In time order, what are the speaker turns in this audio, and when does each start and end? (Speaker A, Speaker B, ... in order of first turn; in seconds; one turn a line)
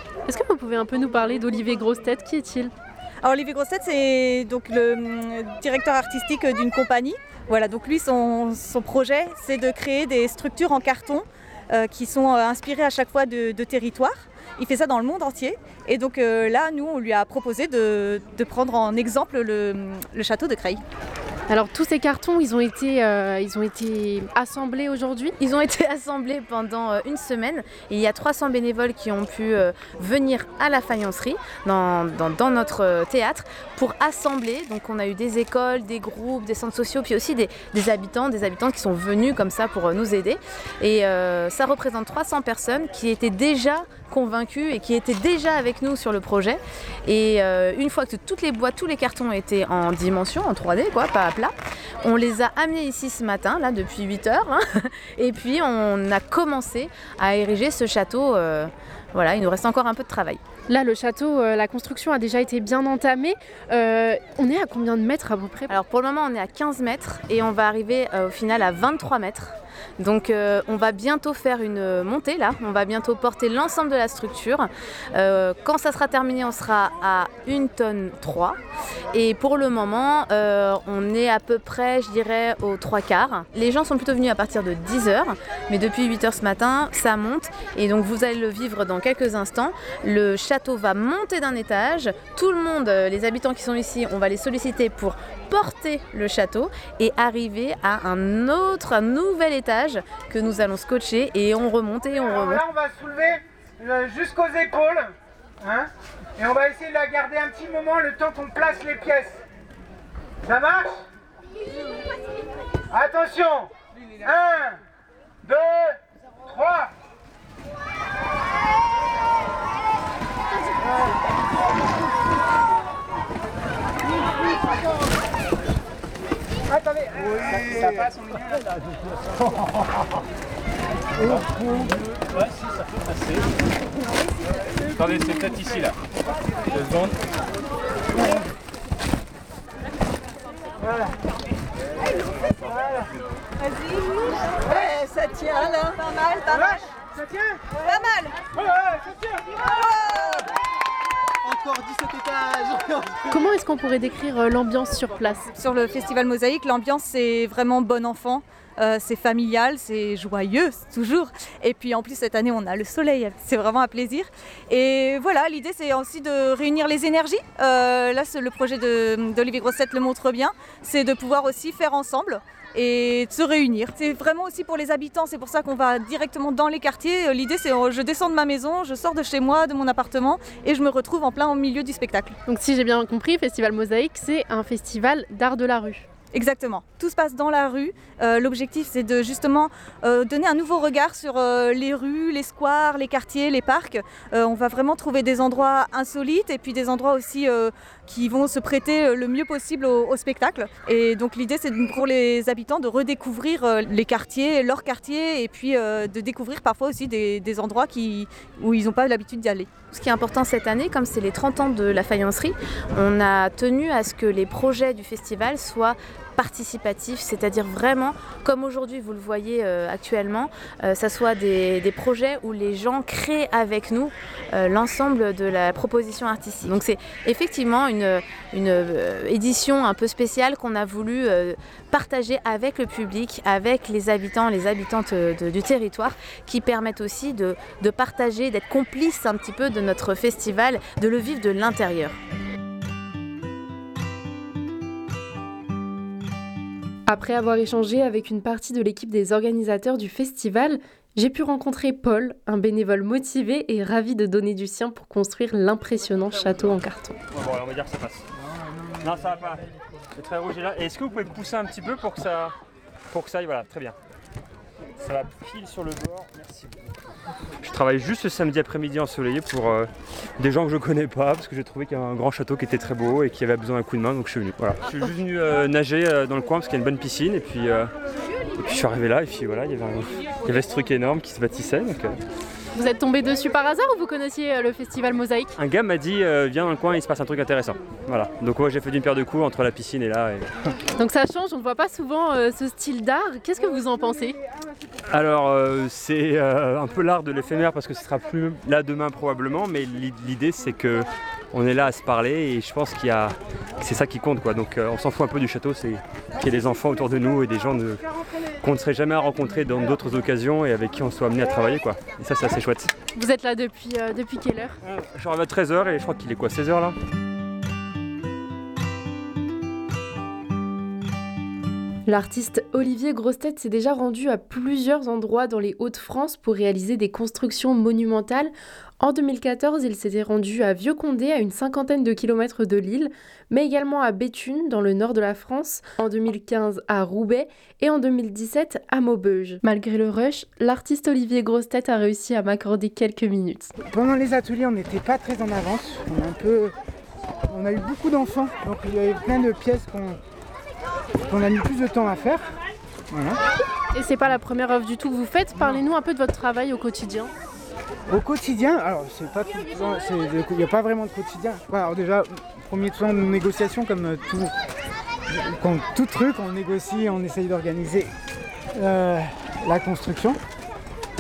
Speaker A: 0.3-2.7
Speaker B: 3.2-20.8
Speaker A: 21.5-25.3
Speaker C: 25.4-51.5
Speaker C: 52.0-60.4
Speaker A: 60.7-65.7
Speaker C: 65.7-78.6
Speaker C: 79.1-102.6
Speaker D: 102.2-109.4
Speaker D: 110.4-111.0
Speaker D: 112.9-114.8
Speaker D: 115.4-116.9
Speaker D: 126.7-128.6
Speaker D: 131.2-131.9
Speaker E: 135.0-135.9
Speaker E: 136.8-137.1
Speaker B: 143.6-146.9
Speaker D: 147.2-147.6
Speaker B: 147.8-148.4
Speaker B: 149.7-150.5
Speaker A: 153.3-155.5
Speaker B: 155.6-182.3
Speaker A: 182.5-186.1
Speaker B: 186.3-209.7
Speaker C: 209.9-242.2
Speaker A: 247.1-257.1
Speaker E: 257.3-258.3
Speaker E: 259.0-259.6
Speaker E: 260.2-262.5
Speaker E: 263.1-263.9
Speaker E: 265.0-266.8
Speaker E: 267.6-277.9
Speaker E: 278.6-282.2
Speaker A: 282.7-285.6
Speaker E: 285.6-290.5
Speaker A: 291.0-294.4
Speaker E: 295.1-308.0
Speaker E: 308.6-312.9
Speaker A: 313.1-314.8
Speaker E: 314.9-316.9
Speaker A: 322.1-343.7
Speaker D: 343.8-346.7
Speaker D: 347.5-350.2
Speaker D: 351.3-352.5
Speaker D: 353.1-353.4
Speaker A: 353.9-357.3
Speaker D: 358.1-364.5
Speaker D: 365.3-368.1
Speaker D: 368.7-370.4